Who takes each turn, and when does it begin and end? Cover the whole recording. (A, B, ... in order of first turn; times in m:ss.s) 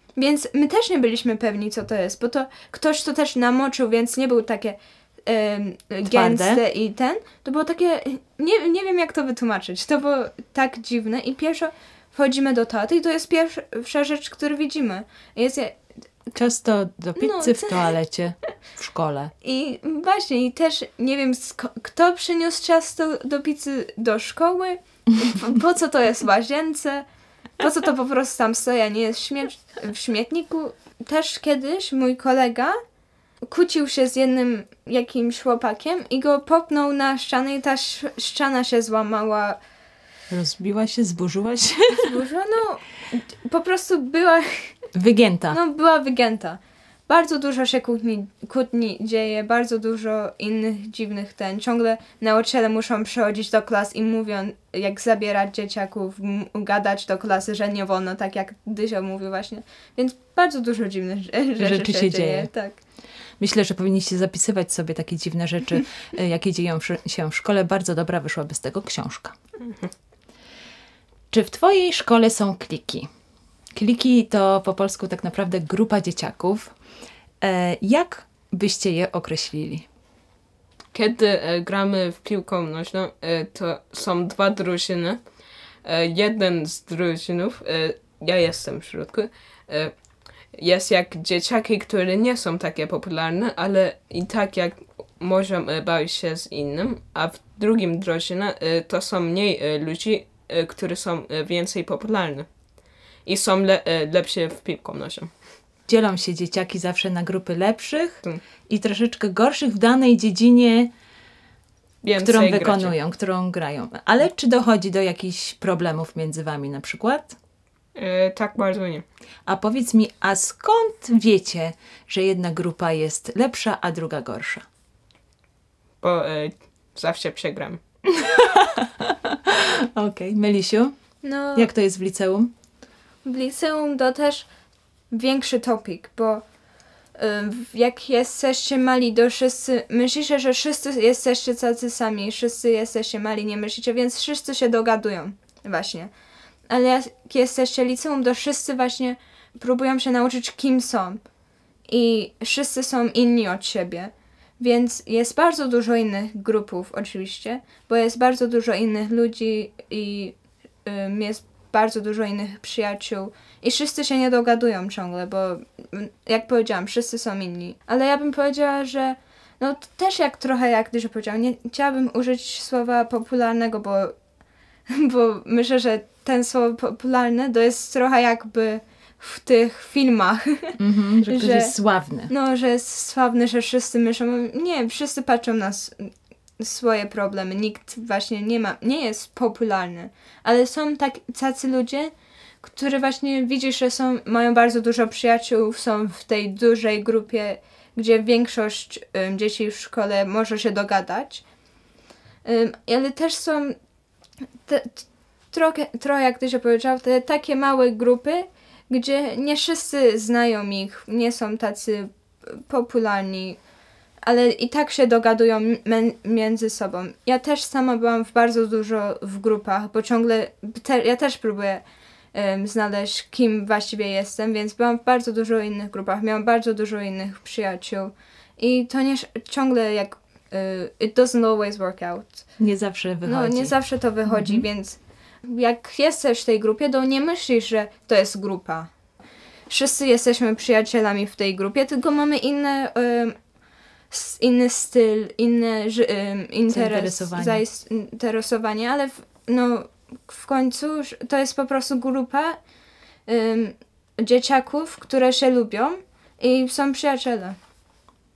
0:00.2-0:15.8 A
0:06.0-0:06.6 B
0:16.3-0:19.3 B
0:17.2-0:17.9 A
0:19.4-0:27.0 A
0:27.6-0:32.8 A
0:33.5-0:39.6 A
0:40.3-0:42.1 B
0:42.0-0:44.9 A
0:44.9-0:45.6 B
0:45.5-1:02.8 A
1:01.6-1:02.5 B
1:03.4-1:09.4 B
1:11.3-1:13.1 B
1:13.7-1:16.7 B
1:17.4-1:19.9 B
1:20.9-1:25.2 C
1:25.8-1:42.5 C
1:43.2-1:45.3 C
1:45.9-1:50.9 B
1:52.0-1:53.0 C
1:52.2-1:57.4 B
1:57.9-1:59.0 C
1:59.5-2:04.6 B
2:06.0-2:07.8 C
2:08.1-2:10.9 B
2:11.2-2:11.7 A
2:11.5-2:12.5 B
2:13.2-2:14.5 A
2:15.1-2:16.4 A
2:17.2-2:26.1 A
2:26.7-2:31.2 A
2:31.9-2:54.1 A
2:54.9-3:01.7 A
3:00.8-3:02.3 B
3:02.3-3:21.4 A
3:22.4-3:23.8 A
3:24.6-3:33.6 A
3:34.2-3:52.5 A
3:52.6-3:53.7 B
3:53.2-3:58.9 A
3:54.2-3:54.6 B
3:59.7-4:03.3 A
4:04.1-4:12.6 A
4:06.7-4:07.6 B
4:13.3-4:17.6 A